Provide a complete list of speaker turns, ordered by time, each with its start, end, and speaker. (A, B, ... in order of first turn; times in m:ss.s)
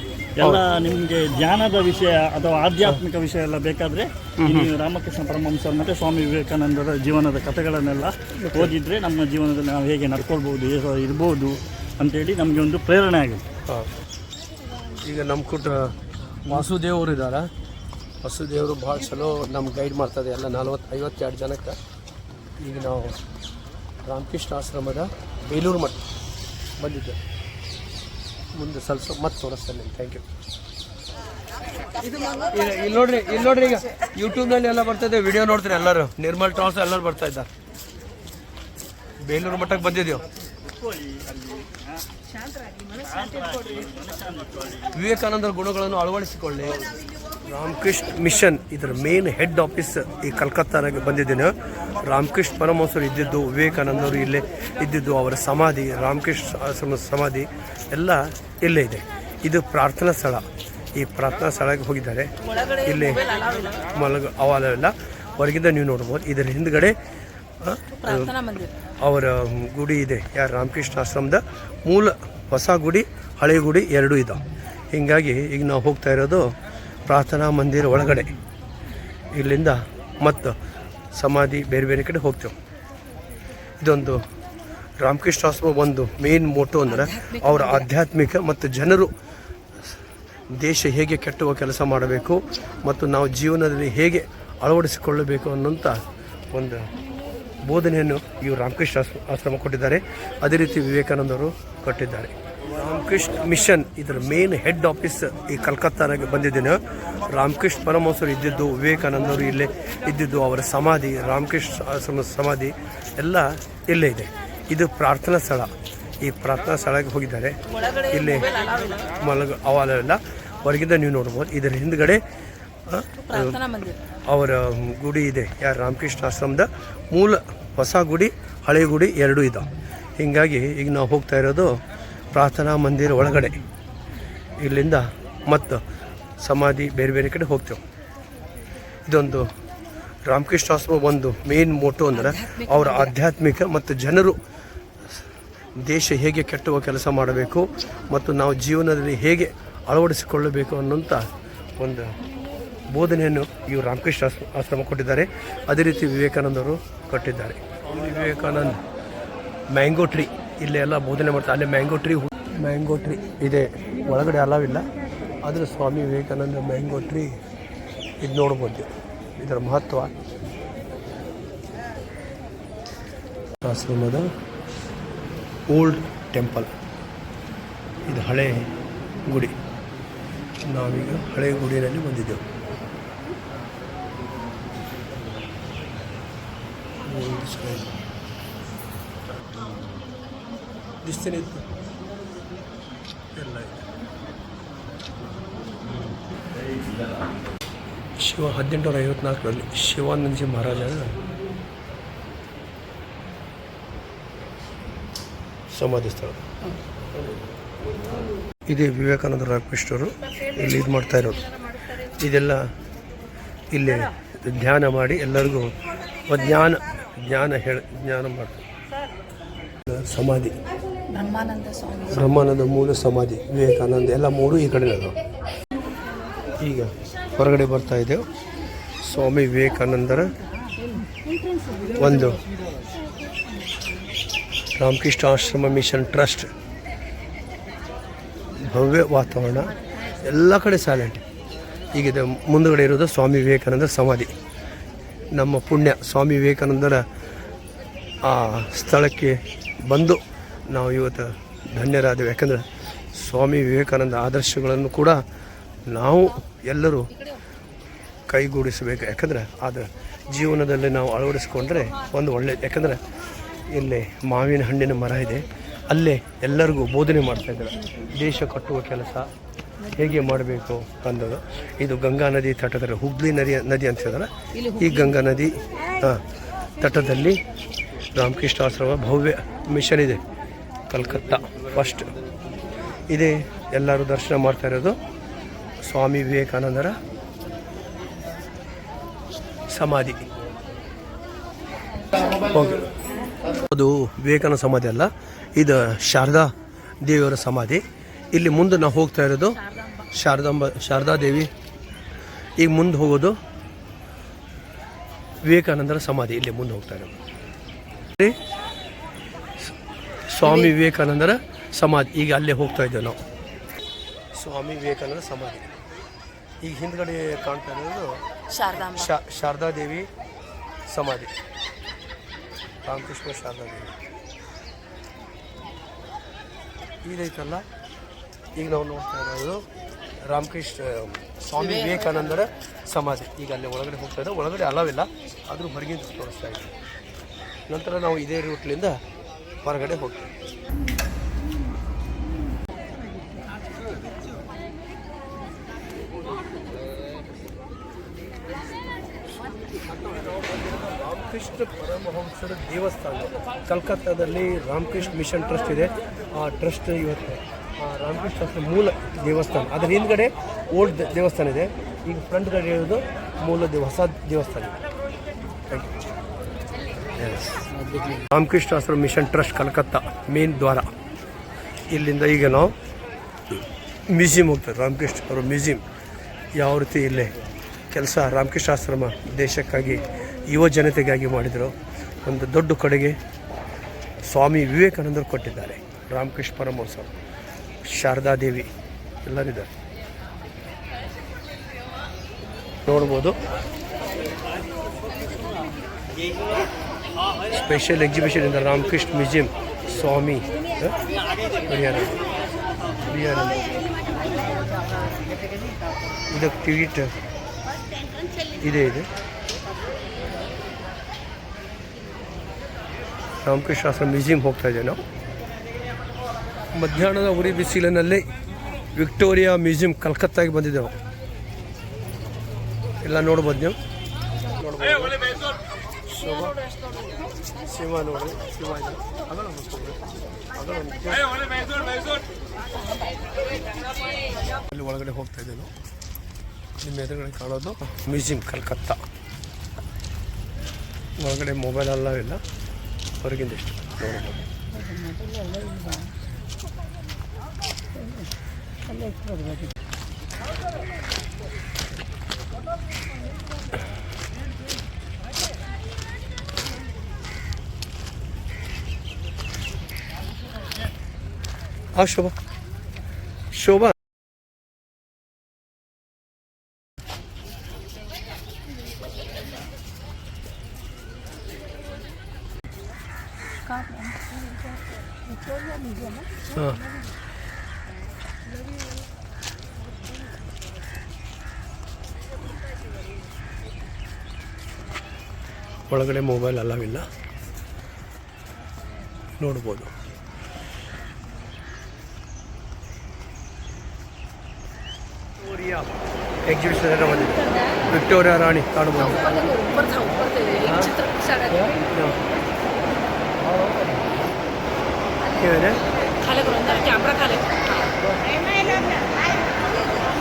0:00.4-0:13.4 A
0:04.4-0:04.7 B
0:08.3-0:08.7 B
0:15.0-0:17.5 B
0:18.2-0:21.8 B
0:22.6-0:23.2 B
0:24.0-0:26.0 B
0:26.8-0:27.2 B
0:28.5-0:30.2 B
0:32.5-0:37.5 B
0:39.2-0:40.2 B
0:40.5-0:42.0 A
0:42.7-0:44.9 A
0:44.9-0:46.8 B
0:47.4-1:02.3 B
1:02.4-1:03.8 C
1:02.8-1:03.2 B
1:03.9-1:07.0 B
1:07.6-1:08.3 B
1:08.0-1:08.7 C
1:09.0-1:16.5 B
1:17.0-1:18.3 B
1:19.3-1:20.6 B
1:21.1-1:22.5 B
1:23.8-1:24.2 B
1:25.0-1:29.1 B
1:26.8-1:27.9 C
1:30.5-1:36.0 B
1:36.5-1:36.9 B
1:37.6-1:57.6 B
1:57.7-1:59.1 C
1:58.1-1:58.5 B
1:59.2-2:02.2 B
2:02.9-2:03.6 B
2:03.2-2:04.0 C
2:04.3-2:11.8 B
2:12.3-2:13.6 B
2:14.6-2:15.8 B
2:16.4-2:17.8 B
2:19.1-2:19.5 B
2:20.3-2:24.4 B
2:22.1-2:23.1 C
2:25.8-2:31.3 B
2:31.8-2:32.1 B
2:32.9-2:38.8 B
2:39.7-2:44.9 B
2:45.4-2:47.4 B
2:48.2-2:50.1 B
2:53.6-2:54.3 B
2:55.7-2:56.7 B
2:58.1-2:58.7 B
2:59.3-2:59.5 B
3:00.6-3:02.4 B
3:07.0-3:07.9 B
3:11.0-3:11.6 B
3:13.3-3:13.8 B
3:18.2-3:21.1 B
3:25.7-3:26.4 B
3:28.7-3:31.5 B
3:32.0-3:32.7 B
3:33.7-3:35.7 B
3:36.3-3:38.6 B
3:39.8-3:40.6 B
3:41.1-3:42.3 C
3:42.1-3:45.1 B
3:46.6-3:48.2 B
3:49.0-3:50.3 B
3:52.0-3:52.4 B
3:54.8-3:56.5 B
3:58.6-4:01.2 B
4:01.9-4:04.3 B
4:05.3-4:07.0 B
4:08.2-4:15.2 B
4:15.9-4:17.1 B
4:18.3-4:23.0 B
4:23.7-4:29.3 B
4:29.9-4:36.2 B
4:34.5-4:35.2 C
4:36.8-4:37.4 B
4:38.1-4:40.2 B
4:40.9-4:42.1 B
4:43.1-4:45.0 B
4:45.8-4:47.0 B
4:49.7-4:50.2 B
4:52.2-4:52.9 B
4:53.7-4:59.6 B
4:59.8-5:00.0 C
5:00.1-5:01.5 B
5:02.6-5:03.4 B
5:05.4-5:07.1 B
5:10.3-5:13.2 B
5:10.4-5:10.7 C
5:14.3-5:15.7 B
5:16.6-5:18.2 B
5:18.5-5:19.1 C
5:18.8-5:20.1 B
5:20.9-5:21.3 B
5:22.8-5:23.9 B
5:27.0-5:27.6 B
5:28.5-5:29.6 B
5:30.2-5:36.7 B
5:31.6-5:32.3 C
5:37.7-5:39.0 B
5:39.6-5:40.3 B
5:49.9-6:04.7 B
6:07.1-6:07.7 B
6:08.3-6:10.9 B
6:11.9-6:12.7 B
6:14.1-6:15.8 B
6:16.5-6:17.3 B
6:17.9-6:23.2 B
6:24.2-6:27.1 B
6:27.8-6:28.7 B
6:29.2-6:29.7 B
6:32.8-6:33.4 B
6:37.5-6:40.9 B
6:41.6-6:42.1 B
6:43.1-6:43.8 B
6:46.3-6:47.1 B
6:48.6-6:49.1 B
6:53.4-6:55.0 B
6:56.7-6:58.3 B
6:58.9-7:01.0 B
7:03.0-7:03.8 B
7:04.6-7:05.4 B
7:06.1-7:06.6 B
7:07.7-7:10.0 B
7:10.5-7:11.3 B
7:14.7-7:15.7 B
7:16.8-7:19.0 B
7:21.2-7:22.4 B
7:23.2-7:24.4 B
7:24.7-7:26.1 C
7:28.9-7:29.4 C
7:41.9-7:42.3 B
7:43.5-7:43.9 B
7:53.6-7:54.8 C
7:55.3-7:56.4 C
7:56.5-7:56.8 B
8:05.9-8:07.0 B
8:09.4-8:09.9 B
8:15.4-8:15.9 B
8:16.4-8:19.5 B
8:17.2-8:17.8 C
8:19.0-8:21.7 C
8:20.6-8:20.9 B
8:21.5-8:22.2 B
8:23.4-8:24.1 B
8:25.4-8:25.8 B
8:26.2-8:27.9 C